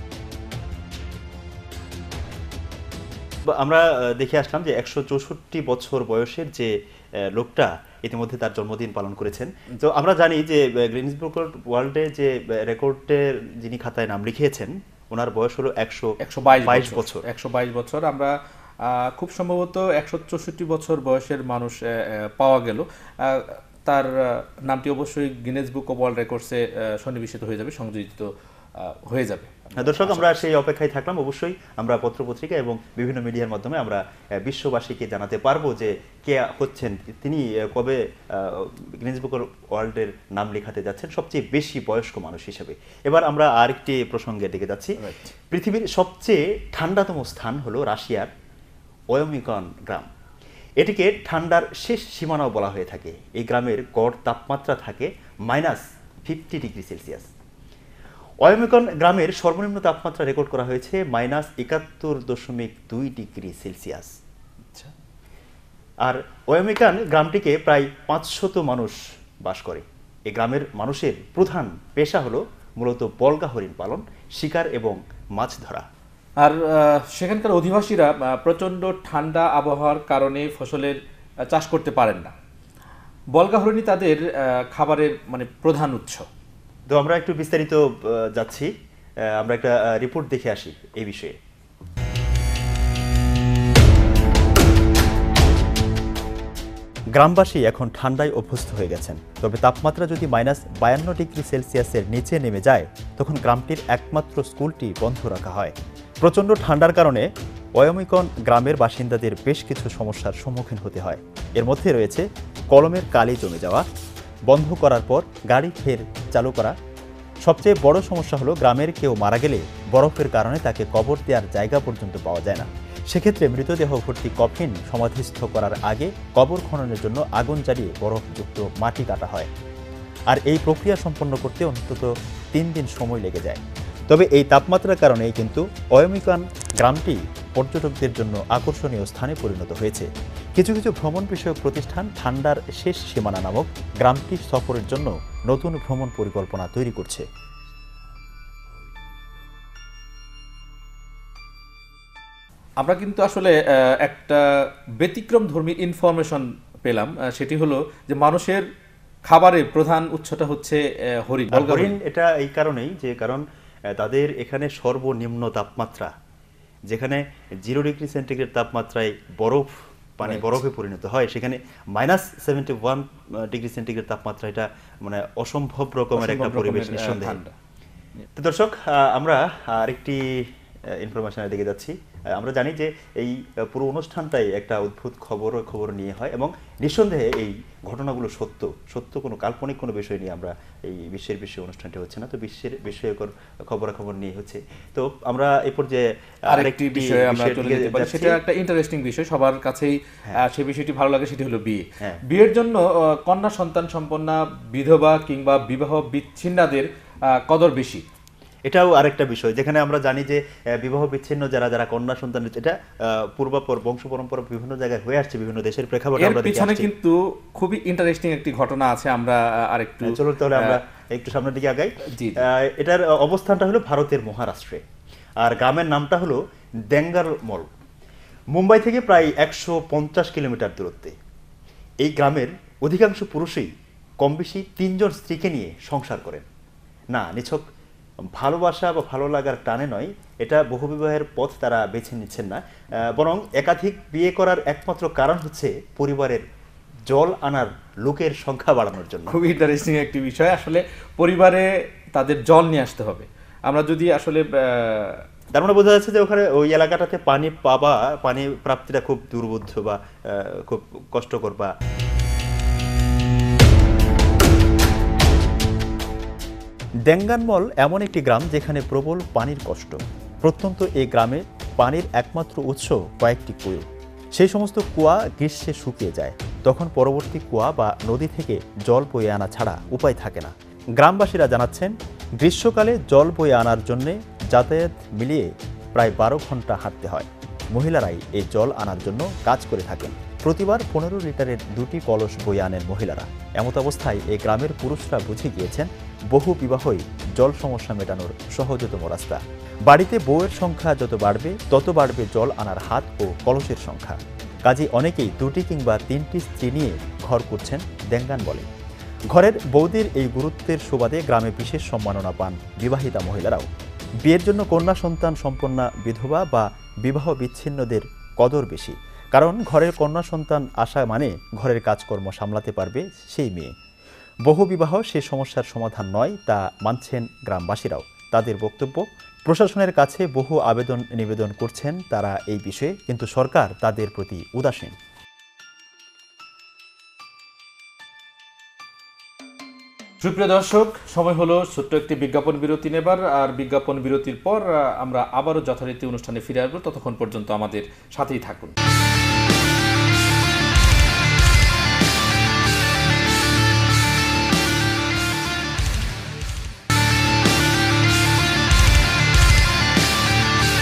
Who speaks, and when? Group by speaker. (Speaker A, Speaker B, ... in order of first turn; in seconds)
Speaker A: 3.5-17.2, 29.8-45.0, 45.5-48.3, 49.1-50.1, 50.8-57.3, 58.4-64.1, 66.0-75.8, 86.9-88.7, 89.2-91.3, 97.1-113.8, 114.5-116.7, 117.4-129.5, 130.3-147.2, 161.5-163.4, 163.9-166.1, 166.9-177.4, 178.3-198.4, 208.7-216.9, 220.0-224.8, 225.4-226.4, 226.9-227.7, 228.5-231.1, 232.0-236.4, 237.1-237.6, 238.3-246.4, 247.1-249.3, 255.5-261.7, 267.1-308.7, 309.3-313.7, 314.2-323.7, 324.4-334.9
Speaker B: 16.2-30.5, 45.0-45.3, 76.4-82.3, 83.3-86.2, 152.8-154.4, 155.0-158.6, 159.2-162.0, 170.2-170.6, 176.2-177.5, 196.5-208.0, 216.2-220.8, 222.1-222.4, 249.3-255.2, 340.2-348.7